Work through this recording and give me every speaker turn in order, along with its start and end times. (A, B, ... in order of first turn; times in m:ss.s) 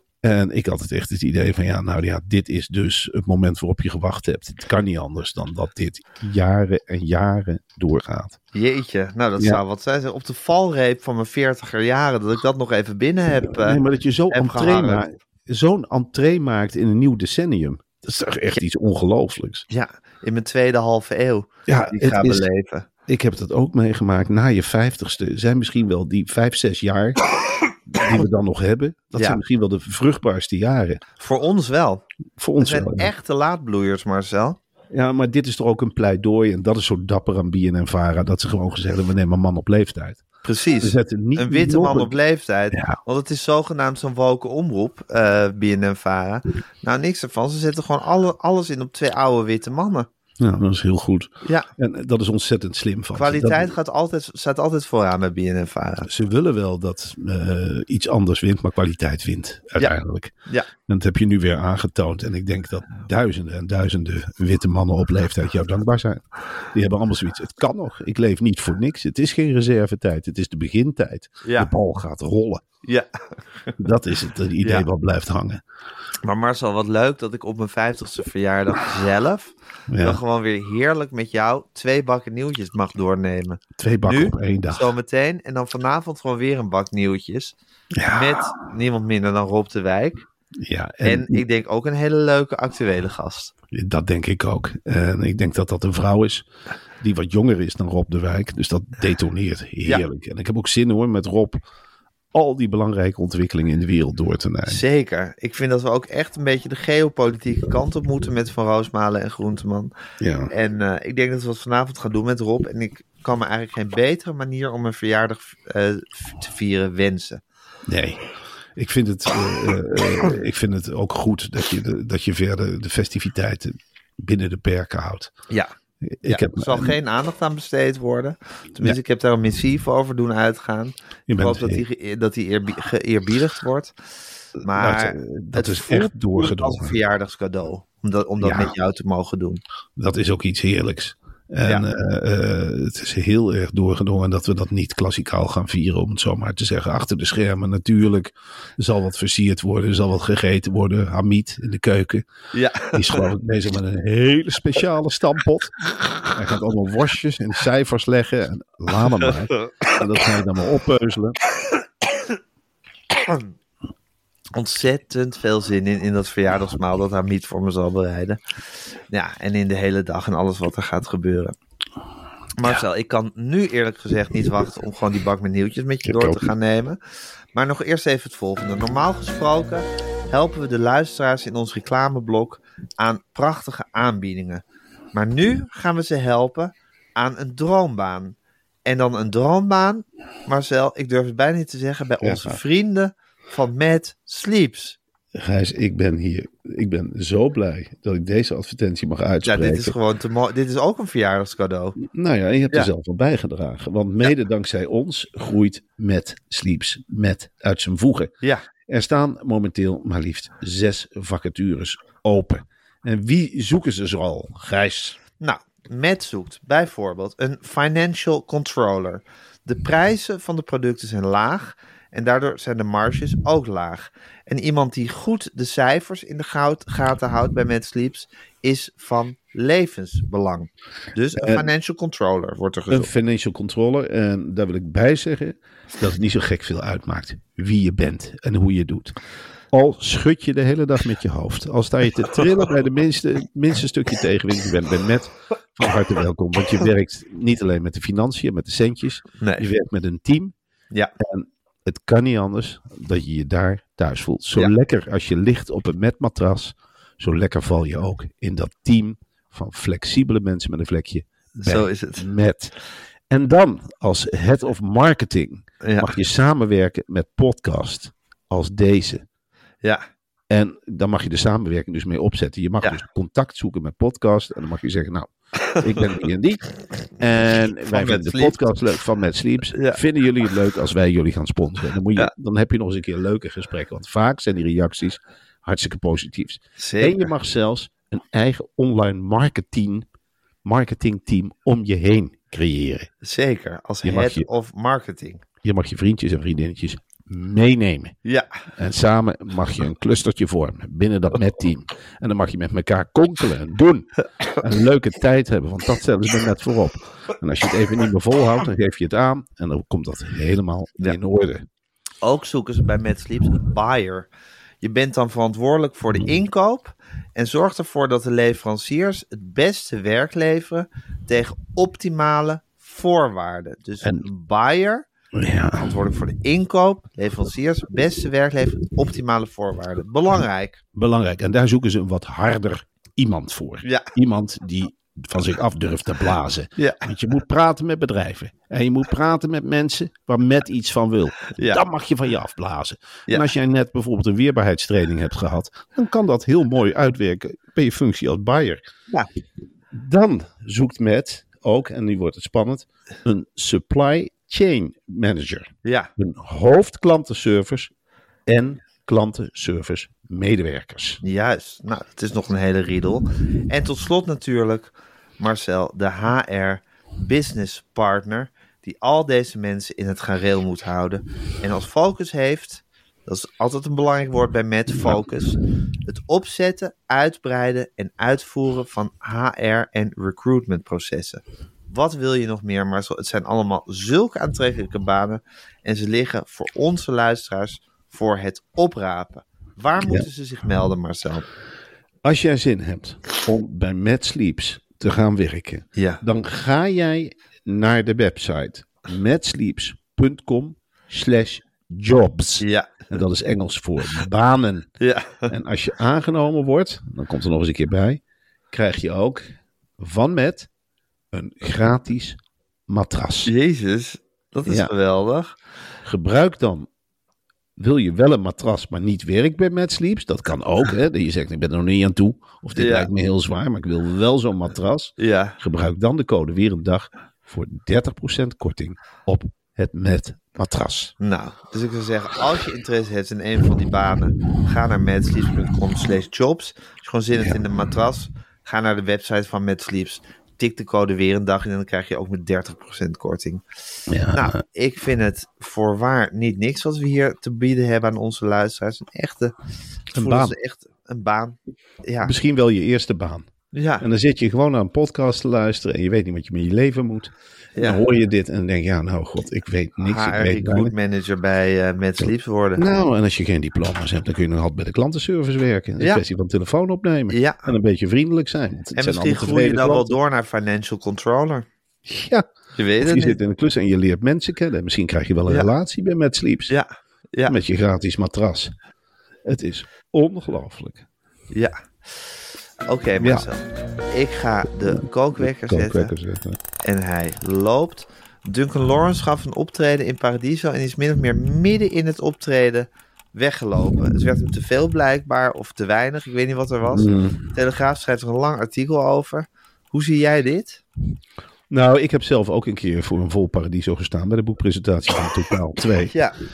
0:00.2-0:08.4 A
0:08.5-0:13.8 B
0:13.5-0:19.6 A
0:14.3-0:15.0 B
0:19.7-0:22.8 B
0:21.7-0:22.5 A
0:23.1-0:27.2 A
0:27.9-0:31.0 A
0:31.2-0:32.0 B
0:32.4-0:33.1 A
0:32.6-0:34.6 B
0:34.9-0:40.2 A
0:40.4-0:50.1 B
0:40.8-0:42.1 A
0:42.7-0:43.0 A
0:50.4-0:53.8 A
0:53.1-0:56.1 B
0:56.0-1:00.3 A
1:00.9-1:12.6 A
1:11.4-1:11.7 B
1:12.8-1:13.7 B
1:13.8-1:15.6 A
1:16.2-1:27.6 B
1:19.9-1:20.2 A
1:23.8-1:24.9 A
1:27.9-1:28.5 A
1:28.1-1:30.2 B
1:30.6-1:31.4 A
1:31.0-1:33.5 B
1:33.7-1:36.4 A
1:37.0-1:41.6 A
1:42.3-1:44.8 A
1:44.6-1:49.9 B
1:50.2-1:50.5 A
1:50.5-1:57.4 B
1:57.9-1:58.2 A
1:58.8-2:05.3 A
2:06.0-2:07.0 A
2:06.2-2:13.9 B
2:11.3-2:11.8 A
2:14.6-2:19.6 B
2:14.6-2:17.0 A
2:18.4-2:18.8 A
2:20.0-2:32.3 A
2:32.5-2:33.3 B
2:32.9-2:41.4 A
2:39.6-2:39.9 B
2:43.2-2:43.4 B
2:44.5-2:48.4 B
2:49.1-2:51.5 B
2:52.6-2:57.0 B
2:56.0-2:56.5 A
2:57.5-3:04.6 B
3:05.1-3:15.0 B
3:12.2-3:12.6 A
3:15.3-3:19.9 A
3:19.4-3:22.0 B
3:22.0-3:28.3 A
3:28.9-3:35.2 A
3:35.4-3:53.1 B
3:51.4-3:51.6 A
3:52.9-3:59.2 A
3:59.7-4:10.5 A
4:09.4-4:09.7 B
4:11.2-4:22.7 A
4:21.6-4:22.2 B
4:23.3-4:29.2 A
4:25.8-4:26.1 B
4:30.5-4:50.0 A
4:37.8-4:38.6 B
4:39.7-4:40.0 B
4:46.8-4:47.3 B
4:50.6-4:53.1 A
4:53.2-4:55.4 B
4:54.0-4:54.5 A
4:55.6-4:58.2 A
4:58.8-5:11.6 A
5:12.2-5:14.3 B
5:14.8-5:25.1 B
5:25.3-5:25.9 A
5:25.8-5:30.8 B
5:30.9-5:48.8 A
5:36.8-5:37.1 B
5:49.9-5:57.9 A
5:55.8-5:56.1 B
5:58.5-6:01.2 A
6:01.2-6:31.5 B
6:14.9-6:15.2 A
6:30.0-6:30.3 A
6:32.2-6:44.9 A
6:36.0-6:36.2 B
6:42.6-6:43.2 B
6:45.0-6:45.5 B
6:45.5-6:50.7 A
6:51.3-6:53.5 A
6:53.4-6:55.5 B
6:54.6-6:54.9 A
6:56.0-6:56.9 A
6:57.8-7:11.1 A
7:02.8-7:03.1 B
7:05.2-7:05.6 B
7:11.2-7:23.6 B
7:24.1-7:24.6 A
7:24.3-7:29.5 B
7:30.1-7:30.6 A
7:30.1-7:32.3 B
7:32.2-7:33.5 A
7:33.7-7:34.0 B
7:34.0-7:40.9 A
7:37.8-7:38.0 B
7:40.0-7:42.9 B
7:42.8-7:50.1 A
7:47.3-7:47.7 B
7:49.0-7:51.6 B
7:52.0-7:52.4 A
7:52.8-7:53.4 B
7:53.0-7:56.8 A
7:56.7-7:57.6 B
7:57.5-7:58.7 A
7:59.4-8:01.0 A
8:01.5-8:02.3 B
8:02.8-8:06.1 B
8:03.2-8:03.4 A
8:04.8-8:06.6 A
8:06.8-8:20.8 B
8:16.9-8:17.4 A
8:21.7-8:26.1 A
8:26.1-8:26.4 B